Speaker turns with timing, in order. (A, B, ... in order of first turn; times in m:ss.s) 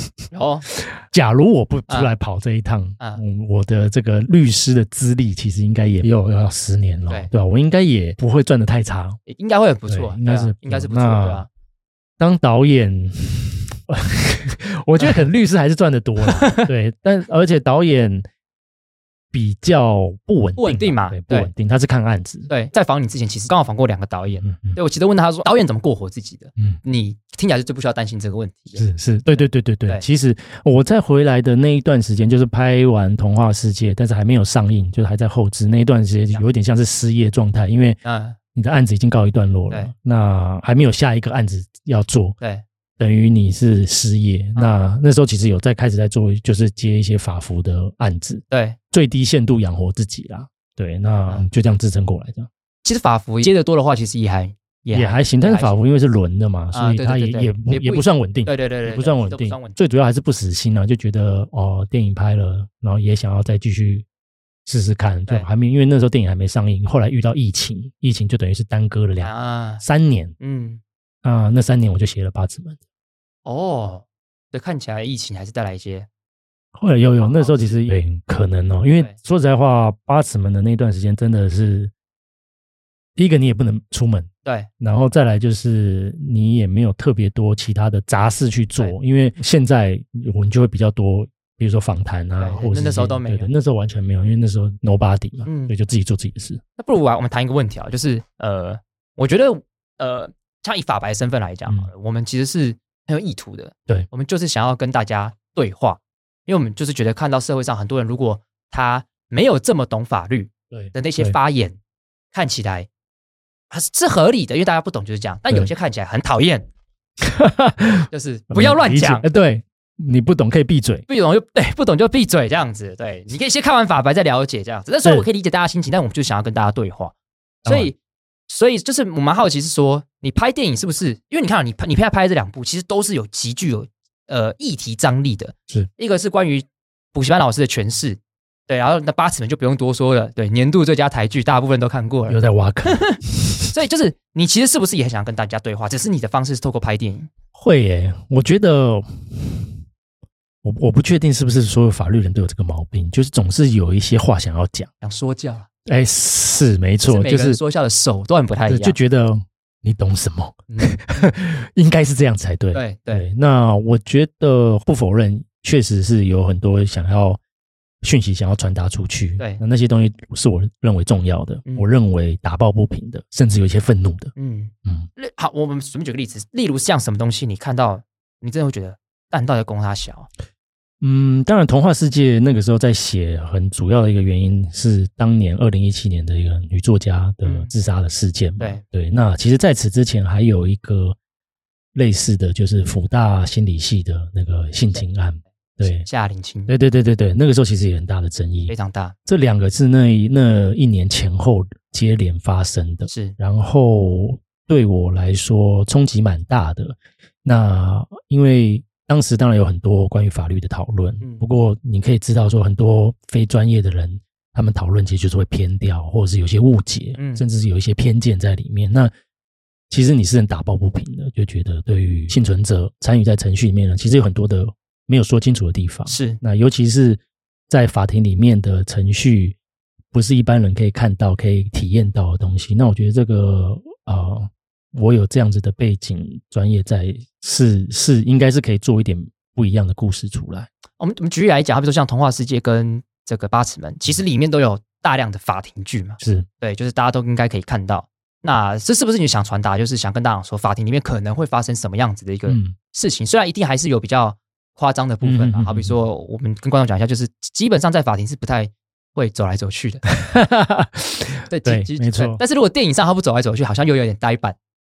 0:00.3-0:00.7 A
0:00.8-0:09.2 B
0:09.3-0:11.5 A
0:09.9-0:11.4 B
0:12.2-0:18.3 B
0:16.2-0:16.7 A
0:19.3-0:22.5 B
0:20.6-0:21.5 A
0:22.5-0:28.8 A
0:24.4-0:24.8 B
0:28.7-0:38.0 B
0:29.4-0:30.0 A
0:38.0-0:38.4 A
0:38.5-0:42.4 B
0:43.0-0:52.5 B
0:48.5-0:48.8 A
0:52.8-0:55.8 A
0:54.9-1:04.0 B
0:56.7-0:59.8 A
1:04.6-1:10.3 B
1:09.2-1:09.8 A
1:10.4-1:10.8 A
1:11.2-1:12.8 B
1:13.4-1:16.1 A
1:16.7-1:21.9 B
1:17.2-1:17.8 A
1:23.2-1:24.3 B
1:24.8-1:36.6 B
1:32.4-1:33.5 A
1:35.4-1:35.7 A
1:36.8-1:51.8 A
1:50.7-1:51.4 B
1:52.3-1:52.9 A
1:53.7-1:56.7 A
1:57.2-2:01.0 B
1:58.1-1:59.2 A
2:01.1-2:08.0 A
2:07.6-2:07.9 B
2:08.5-2:27.3 A
2:22.3-2:23.7 B
2:27.5-2:29.7 B
2:30.6-2:34.9 B
2:35.0-2:35.7 A
2:35.8-2:37.6 B
2:37.0-2:39.0 A
2:38.7-2:47.4 B
2:40.7-2:41.3 A
2:42.7-2:43.2 A
2:48.0-2:54.3 B
2:54.4-3:00.3 A
3:01.0-3:11.2 B
3:07.4-3:07.7 A
3:11.9-3:16.1 B
3:15.8-3:16.7 A
3:16.7-3:18.7 B
3:18.7-3:19.1 A
3:19.2-3:39.1 B
3:23.1-3:23.4 A
3:37.2-3:37.4 A
3:39.9-3:49.6 B
3:46.1-3:46.4 A
3:50.1-4:00.7 B
4:01.0-4:20.0 A
4:06.2-4:06.4 B
4:12.5-4:12.7 B
4:15.2-4:16.0 B
4:20.1-4:22.4 B
4:21.5-4:24.6 A